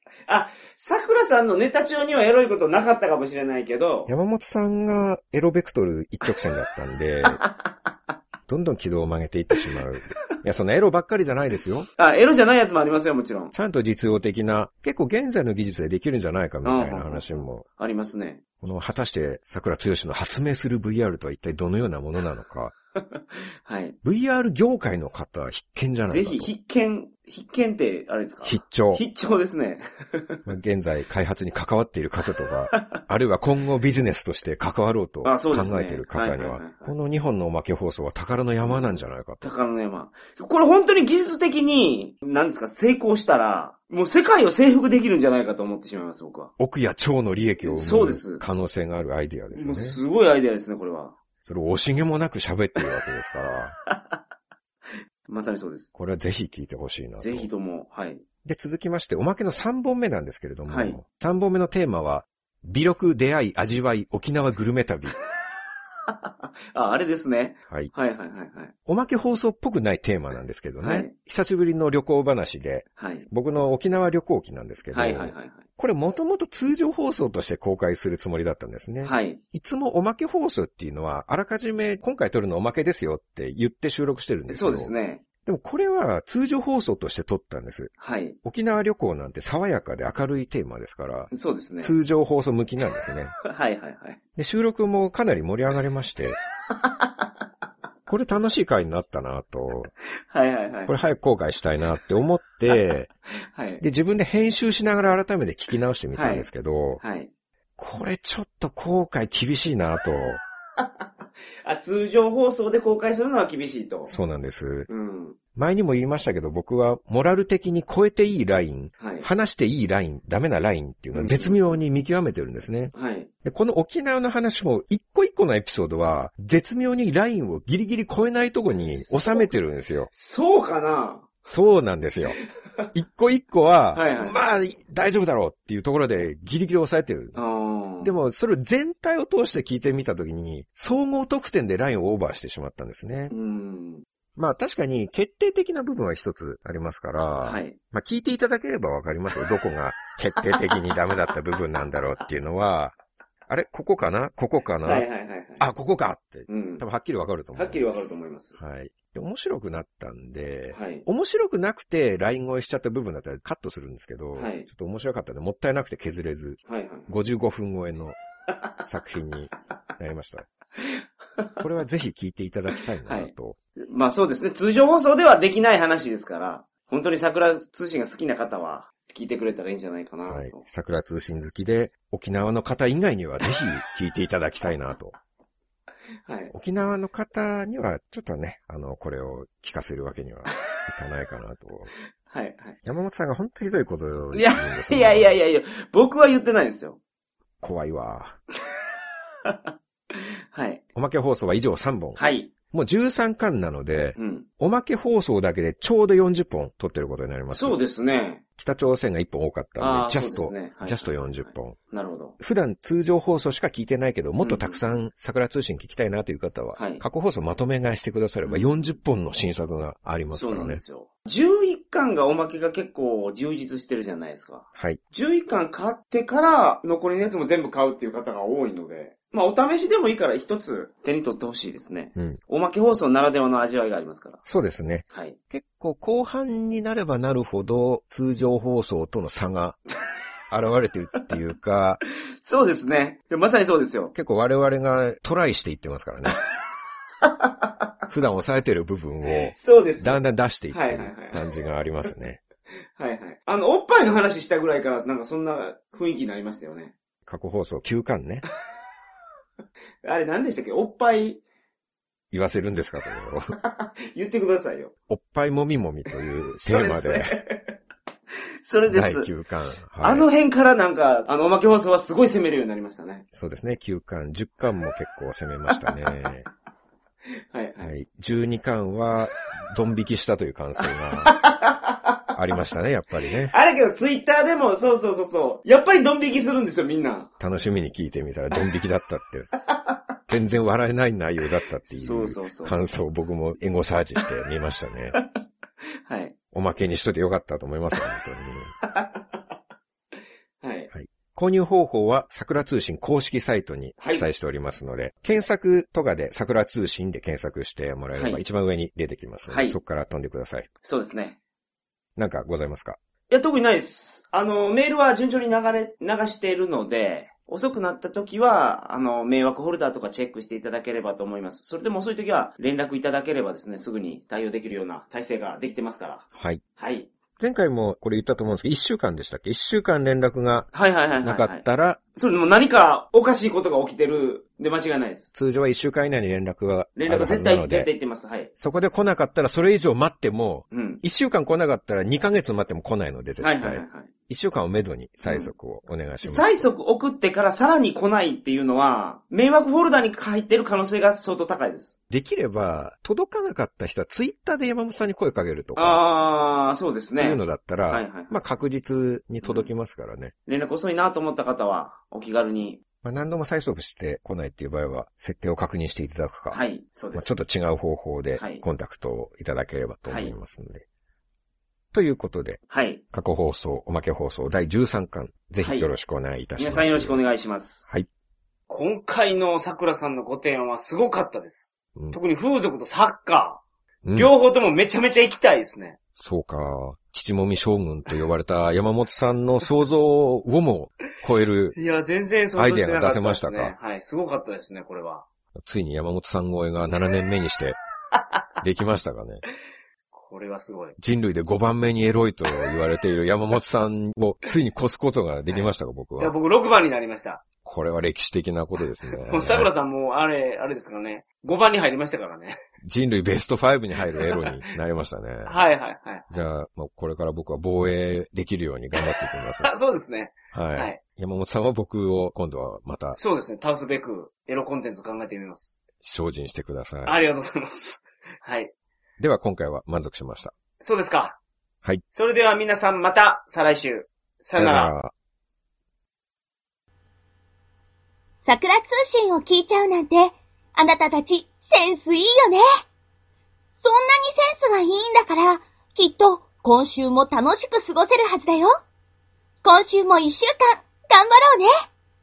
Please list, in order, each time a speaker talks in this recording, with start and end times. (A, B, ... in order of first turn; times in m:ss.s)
0:00.3-0:04.1 A
0:04.1-0:07.4 B
0:08.5-0:11.9 B
0:12.0-0:13.5 A
0:13.5-0:17.6 B
0:16.6-0:18.4 A
0:18.6-0:22.7 B
0:23.0-0:24.0 A
0:24.0-0:26.5 B
0:26.0-0:30.4 A
0:28.4-0:29.0 B
0:30.4-0:39.6 B
0:32.7-0:33.0 A
0:35.2-0:36.9 A
0:38.6-0:46.5 A
0:46.6-0:50.0 B
0:47.6-0:48.4 A
0:49.5-0:51.2 A
0:51.4-0:53.7 B
0:53.9-0:54.2 A
0:54.9-0:55.9 A
0:55.9-0:57.5 B
0:57.2-0:58.2 A
0:58.4-1:05.2 B
1:00.7-1:01.0 A
1:06.1-1:08.7 A
1:08.8-1:27.9 B
1:10.8-1:11.1 A
1:13.0-1:13.3 A
1:14.9-1:15.6 A
1:19.0-1:19.4 A
1:24.5-1:25.2 A
1:28.0-1:28.4 A
1:28.4-1:33.3 B
1:31.3-1:32.0 A
1:33.4-1:34.2 A
1:34.4-1:36.4 B
1:38.1-1:39.9 B
1:40.3-1:40.9 A
1:40.9-1:43.1 B
1:43.5-1:43.8 A
1:43.8-1:47.0 B
1:46.1-1:46.4 A
1:47.0-1:47.3 A
1:47.8-1:50.4 B
1:51.6-1:54.1 A
1:54.1-1:54.9 B
1:54.9-1:55.4 A
1:55.5-2:02.9 B
1:59.0-1:59.3 A
2:01.1-2:01.6 A
2:02.9-2:03.3 A
2:03.4-2:10.1 B
2:09.0-2:09.5 A
2:10.1-2:11.3 A
2:11.5-2:12.4 B
2:12.9-2:17.4 B
2:13.9-2:14.4 A
2:17.3-2:18.1 A
2:18.0-2:23.3 B
2:23.3-2:24.0 A
2:24.4-2:32.9 B
2:27.4-2:27.8 A
2:33.5-2:35.1 B
2:34.8-2:35.6 A
2:35.6-2:48.2 B
2:36.5-2:36.8 A
2:37.5-2:38.6 A
2:40.7-2:41.0 A
2:44.3-2:44.7 A
2:46.6-2:47.1 A
2:48.8-2:50.5 B
2:50.8-2:51.6 A
2:51.6-2:53.6 B
2:53.0-2:53.3 A
2:53.8-3:00.6 A
3:00.3-3:05.1 B
3:06.2-3:06.5 A
3:06.5-3:11.9 B
3:12.3-3:12.8 A
3:12.8-3:15.3 B
3:14.3-3:17.0 A
3:17.6-3:18.4 B
3:19.4-3:20.8 A
3:20.9-3:27.8 B
3:22.2-3:22.5 A
3:24.2-3:24.5 A
3:27.5-3:28.4 A
3:28.6-3:31.8 B
3:29.8-3:32.4 A
3:32.4-3:40.8 B
3:34.4-3:34.8 A
3:36.8-3:37.0 A
3:38.4-3:38.7 A
3:40.3-3:54.4 A
3:44.7-3:45.0 B
3:54.4-3:59.8 B
3:55.1-3:55.4 A
4:00.5-4:02.0 B
4:02.4-4:04.1 A
4:04.1-4:06.4 B
4:08.1-4:12.4 B
4:09.6-4:11.4 A
4:13.0-4:16.9 A
4:17.2-4:18.4 B
4:20.0-4:21.4 A
4:22.3-4:23.4 B
4:23.7-4:24.9 A
4:25.1-4:27.4 B
4:26.5-4:27.7 A
4:28.6-4:29.3 A
4:28.9-4:30.3 B
4:30.0-4:33.2 A
4:33.3-4:36.4 B
4:35.7-4:36.1 A
4:37.5-4:37.9 A
4:37.8-4:41.4 B
4:41.2-4:41.9 A
4:42.3-4:43.5 B
4:43.5-4:47.3 A
4:47.4-4:49.5 B
4:50.3-4:55.2 B
4:51.9-4:52.9 A
4:56.0-4:56.3 A
4:56.5-4:58.7 B
4:58.8-4:59.2 A
5:00.6-5:00.9 A
5:00.9-5:10.7 B
5:04.0-5:04.2 A
5:08.1-5:08.4 A
5:09.5-5:09.8 A
5:10.8-5:11.4 A
5:12.2-5:13.0 B
5:13.3-5:26.2 A
5:26.3-5:26.6 B
5:26.8-5:27.1 A
5:27.4-5:32.0 B
5:30.7-5:31.6 A
5:32.1-5:35.3 A
5:35.3-5:37.9 B
5:37.0-5:38.5 A
5:38.6-5:46.7 B
5:40.7-5:41.0 A
5:43.4-5:44.1 A
5:45.2-5:45.5 A
5:46.2-5:51.9 A
5:52.1-5:56.0 B
5:55.8-5:58.4 A
5:57.2-6:00.3 B
5:59.4-5:59.7 A
6:00.4-6:02.8 A
6:03.0-6:06.6 B
6:06.5-6:07.4 A
6:07.1-6:10.8 B
6:08.4-6:08.6 A
6:10.1-6:10.3 A
6:11.9-6:12.6 B
6:12.7-6:13.0 A
6:13.1-6:17.2 B
6:15.6-6:15.9 A
6:16.6-6:17.8 A
6:18.7-6:23.6 A
6:24.0-6:24.3 B
6:24.1-6:26.0 A
6:26.2-6:31.8 B
6:31.7-6:35.2 A
6:32.5-6:33.7 B
6:35.6-6:37.8 B
6:38.6-6:39.4 B
6:40.1-6:41.0 A
6:41.0-6:46.4 B
6:45.5-6:47.4 A
6:47.6-6:49.7 B
6:49.0-6:52.6 A
6:52.8-6:55.6 B
6:54.1-6:54.5 A
6:55.4-6:56.3 A
6:56.3-6:59.7 B
6:59.0-7:01.0 A
7:00.5-7:03.2 B
7:03.2-7:05.8 A
7:06.0-7:07.2 B
7:07.0-7:08.7 A
7:09.2-7:10.5 B
7:10.8-7:11.4 A
7:12.1-7:14.9 A
7:14.6-7:15.1 B
7:18.4-7:22.6 C
7:23.8-7:28.7 C
7:29.6-7:31.8 C